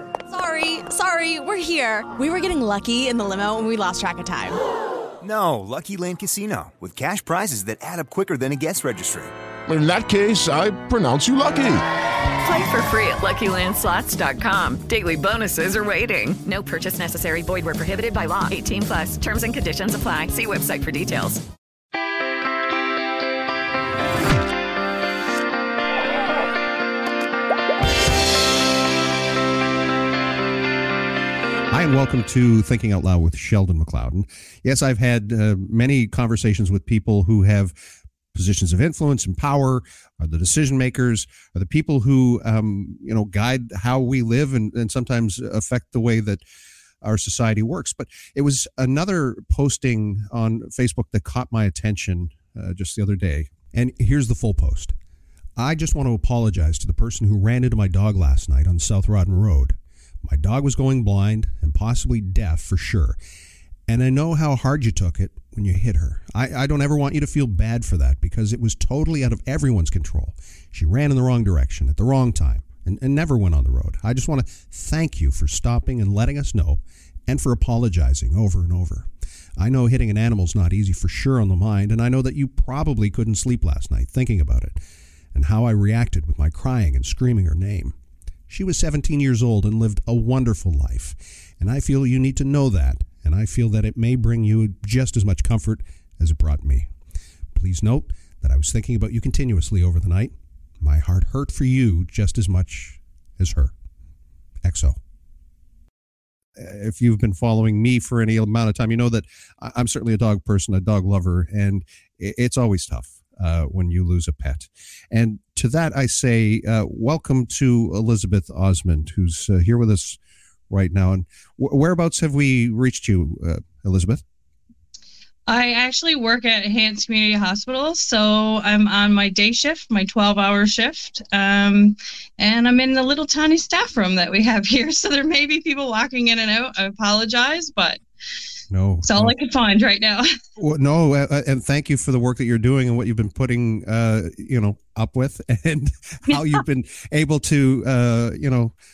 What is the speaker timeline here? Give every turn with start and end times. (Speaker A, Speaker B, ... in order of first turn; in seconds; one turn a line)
Speaker A: 0.3-4.6
Speaker B: 5.2-9.3
Speaker C: 9.7-11.8
Speaker D: 12.4-21.4
Speaker E: 31.7-37.7
Speaker E: 38.3-46.4
Speaker E: 47.0-54.9
Speaker E: 55.6-63.2
Speaker E: 63.9-84.8
Speaker E: 85.3-87.9
Speaker E: 88.5-96.9
Speaker E: 97.5-103.7
Speaker E: 104.6-105.0
Speaker E: 106.6-120.2
Speaker E: 120.7-124.2
Speaker F: 125.5-138.0
Speaker E: 138.7-139.3
Speaker F: 139.0-140.2
Speaker E: 140.6-148.7